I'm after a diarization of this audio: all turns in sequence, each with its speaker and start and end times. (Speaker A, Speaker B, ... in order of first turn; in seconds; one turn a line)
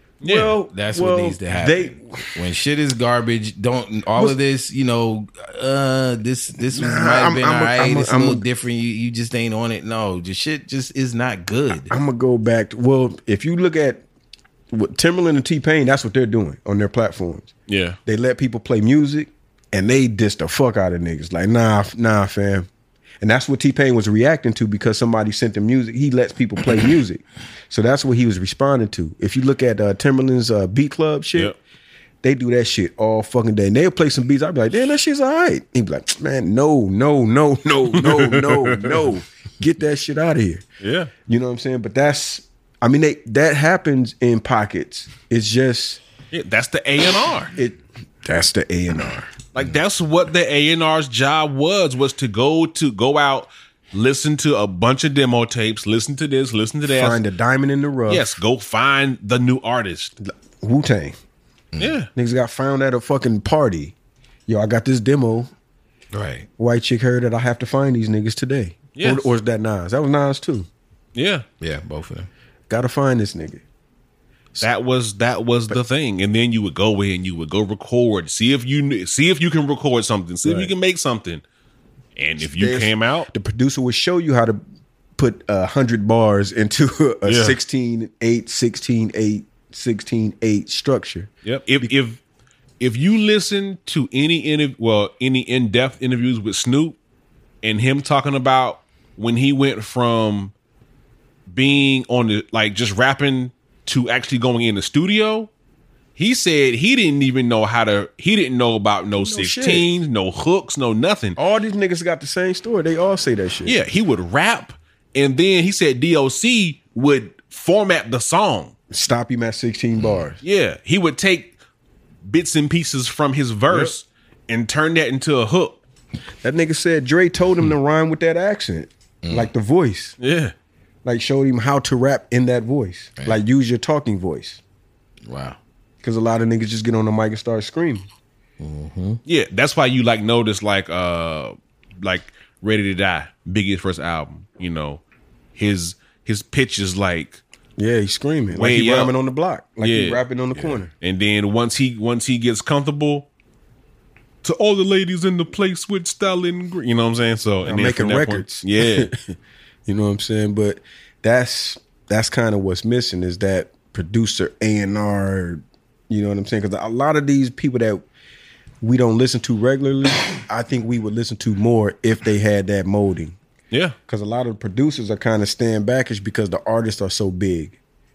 Speaker A: 0.2-0.6
Speaker B: 0.2-2.2
Speaker C: 0.7-11.9
Speaker B: 6.6-8.4
Speaker B: 11.8-14.0
Speaker B: 14.7-17.5
Speaker A: 17.7-18.0
Speaker B: 18.1-22.7
Speaker B: 23.2-31.5
Speaker B: 32.2-40.6
Speaker A: 38.0-39.0
Speaker A: 40.8-41.1
Speaker B: 41.2-46.0
Speaker A: 46.3-47.5
Speaker B: 47.5-49.3
Speaker A: 49.5-57.2
Speaker B: 56.9-58.3
Speaker A: 58.1-60.1
Speaker B: 60.2-61.1
Speaker A: 61.8-62.1
Speaker B: 62.1-63.9
Speaker B: 64.5-65.5
Speaker C: 66.1-66.5
Speaker B: 66.6-70.7
Speaker A: 68.9-69.3
Speaker A: 71.1-71.4
Speaker C: 71.6-72.3
Speaker B: 72.7-73.6
Speaker A: 74.6-81.4
Speaker B: 80.4-80.7
Speaker A: 82.2-83.3
Speaker B: 82.4-84.6
Speaker B: 85.2-91.3
Speaker A: 87.2-87.6
Speaker A: 91.4-92.2
Speaker A: 92.8-97.0
Speaker A: 97.6-100.5
Speaker A: 101.5-105.5
Speaker A: 106.2-111.4
Speaker B: 109.2-109.9
Speaker B: 111.3-113.8
Speaker A: 113.6-118.7
Speaker B: 118.9-120.4
Speaker A: 120.4-121.5
Speaker A: 122.2-125.8
Speaker B: 123.7-123.9
Speaker B: 126.4-130.2
Speaker C: 129.2-129.5
Speaker A: 130.2-130.5
Speaker B: 131.0-134.6
Speaker C: 135.2-135.6
Speaker B: 136.0-138.1
Speaker C: 138.6-139.2
Speaker A: 139.2-145.0
Speaker A: 145.6-147.4
Speaker B: 147.8-150.9
Speaker A: 148.5-149.1
Speaker A: 149.8-153.3
Speaker A: 154.4-159.1
Speaker B: 157.6-159.2
Speaker B: 159.8-168.0
Speaker B: 168.8-173.4
Speaker A: 173.7-173.9
Speaker B: 174.1-177.8